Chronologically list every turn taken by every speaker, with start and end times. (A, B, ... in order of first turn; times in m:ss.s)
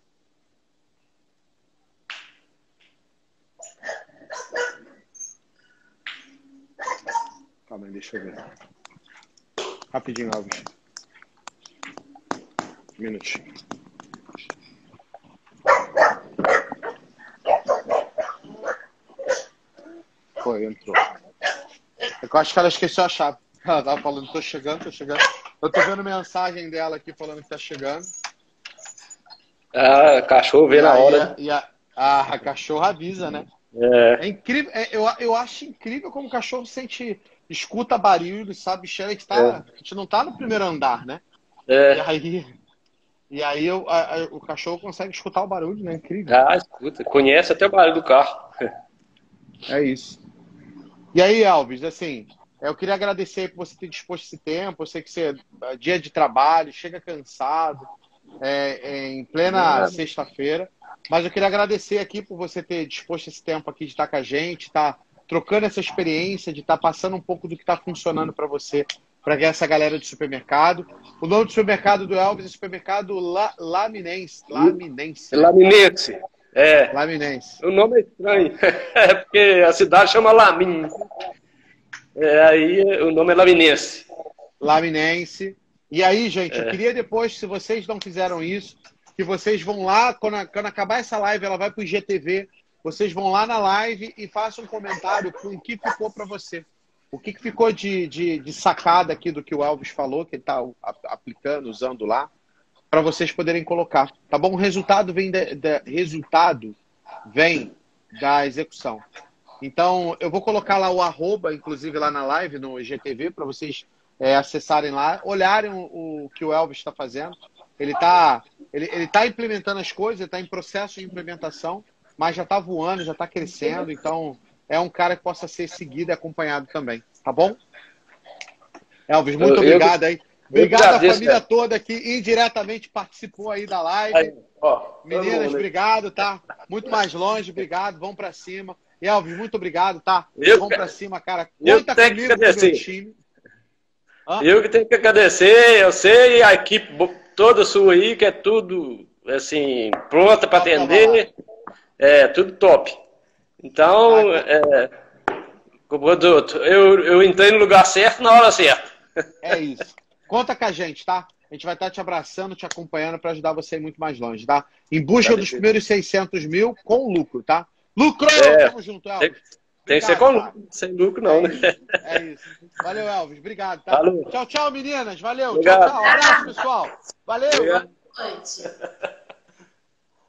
0:07.7-0:08.4 A
0:09.9-0:10.7 A
0:13.0-0:13.4 A
0:20.4-0:21.0 A
0:22.2-0:28.1 A
0:29.7-0:31.3 B
0:30.7-0:33.5 A
0:33.7-0:34.2 B
0:34.2-0:41.2 A
0:39.3-0:39.6 B
0:41.7-0:42.0 B
0:41.9-0:42.5 A
0:43.3-0:46.4 A
0:46.3-0:48.5 B
0:49.7-0:50.2 A
0:51.1-0:57.8 A
0:58.4-1:15.5 A
0:59.4-1:00.0 B
1:14.5-1:14.8 B
1:15.3-1:16.9 B
1:16.9-1:17.6 A
1:17.6-1:21.1 B
1:22.1-1:24.0 B
1:24.6-1:42.3 A
1:26.5-1:26.8 B
1:42.9-1:49.0 A
1:49.6-2:07.6 A
2:09.1-2:14.3 A
2:09.4-2:09.9 B
2:10.5-2:11.4 B
2:14.1-2:15.7 B
2:15.0-2:23.2 A
2:20.4-2:20.8 B
2:21.6-2:22.8 B
2:24.4-2:31.3 B
2:30.5-2:31.3 A
2:32.0-2:33.0 B
2:33.6-2:34.9 B
2:34.1-2:34.4 A
2:35.9-2:38.8 B
2:39.4-2:50.6 A
2:45.2-2:45.7 B
2:48.4-2:49.3 B
2:49.9-2:51.8 B
2:51.2-2:57.8 A
2:53.9-2:54.3 B
2:55.5-2:56.4 B
2:57.5-2:58.8 B